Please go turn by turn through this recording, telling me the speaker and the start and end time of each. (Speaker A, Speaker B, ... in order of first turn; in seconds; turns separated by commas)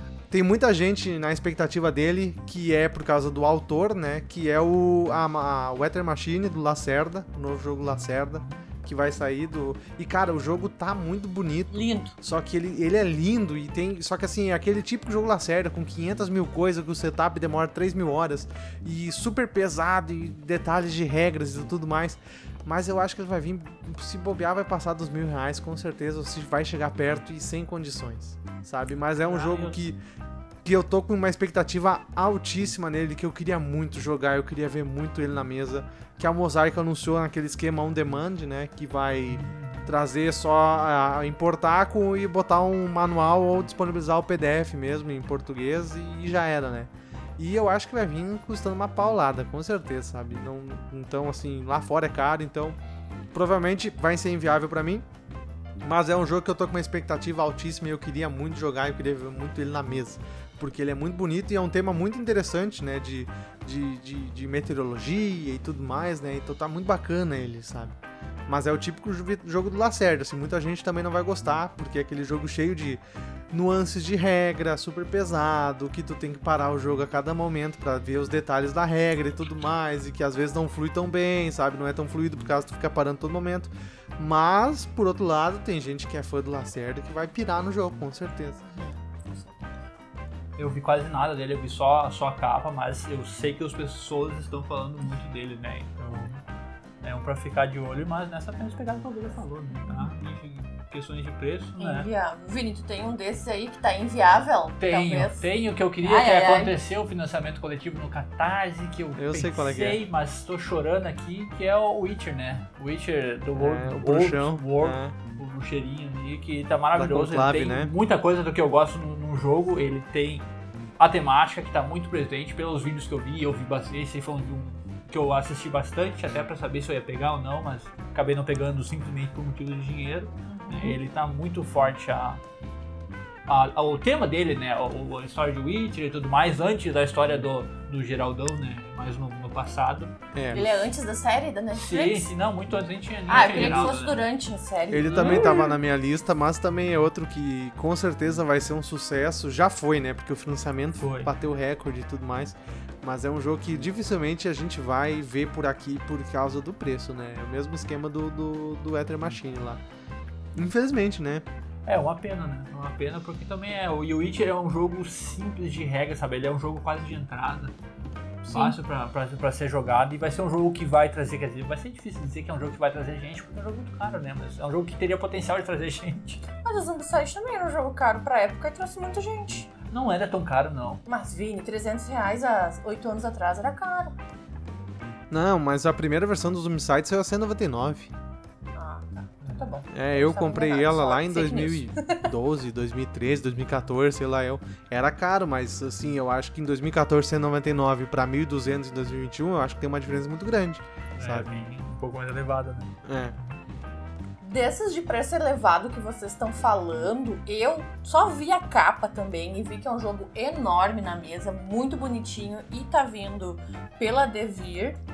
Speaker A: 0.3-30.0, Speaker B: 8.3-8.6, Speaker C: 11.7-12.1, Speaker B: 29.2-29.9, Speaker A: 30.6-52.8, Speaker B: 39.3-39.9, Speaker A: 53.3-55.0, Speaker A: 55.8-88.6, Speaker C: 88.6-89.7, Speaker B: 90.6-96.4, Speaker B: 97.0-102.1, Speaker C: 101.8-105.5, Speaker B: 104.8-120.5, Speaker C: 106.0-106.8, Speaker A: 109.2-110.0, Speaker A: 113.6-115.2, Speaker A: 117.0-117.9, Speaker B: 121.0-132.4, Speaker C: 130.5-131.0, Speaker B: 133.5-140.2, Speaker A: 140.3-140.7, Speaker C: 140.5-142.3, Speaker B: 141.8-144.2, Speaker C: 143.3-145.7, Speaker A: 143.6-143.9, Speaker A: 144.9-159.8, Speaker B: 145.1-145.7, Speaker B: 151.0-151.3, Speaker A: 160.6-161.4, Speaker B: 161.9-167.7, Speaker C: 168.4-168.8, Speaker B: 168.5-176.5, Speaker C: 176.6-179.7, Speaker B: 179.9-181.0, Speaker C: 181.1-184.2, Speaker A: 185.3-188.1, Speaker C: 188.8-192.2, Speaker B: 189.4-189.8, Speaker A: 189.9-201.5, Speaker B: 201.2-203.6, Speaker A: 203.1-203.4, Speaker C: 204.4-215.0